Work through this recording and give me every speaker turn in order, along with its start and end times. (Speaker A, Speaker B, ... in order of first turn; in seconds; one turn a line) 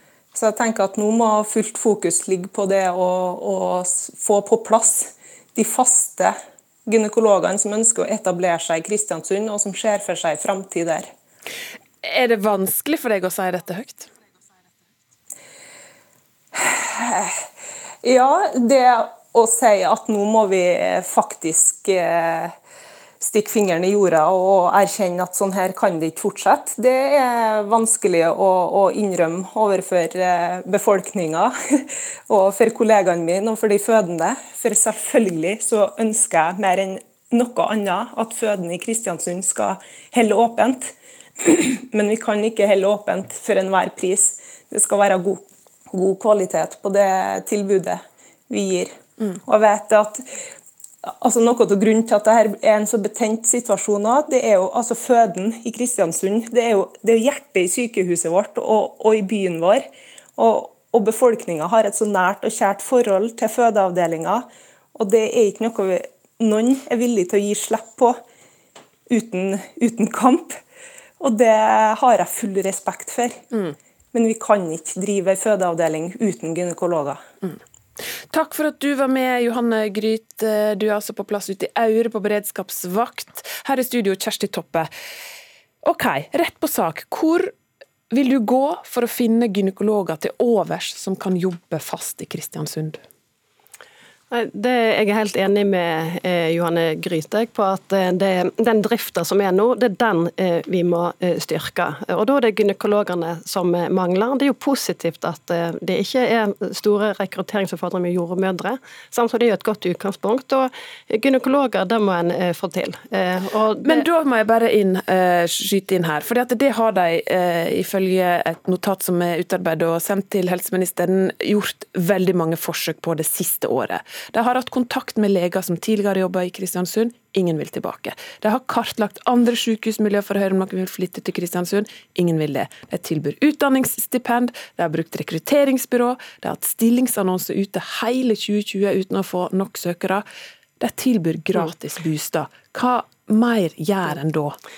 Speaker A: 0.3-6.3
Speaker A: 6.9-11.1
Speaker B: 12.0-14.1
Speaker A: 16.6-17.4
Speaker A: 18.0-22.5
Speaker A: 23.2-50.2
Speaker A: 51.2-59.9
Speaker A: 60.4-68.2
Speaker A: 69.1-70.5
Speaker A: 71.2-73.4
Speaker A: 74.1-77.2
Speaker B: 78.3-84.9
Speaker B: 85.8-87.5
Speaker B: 88.1-93.0
Speaker C: 94.3-114.0
Speaker B: 113.8-140.2
Speaker B: 140.8-144.6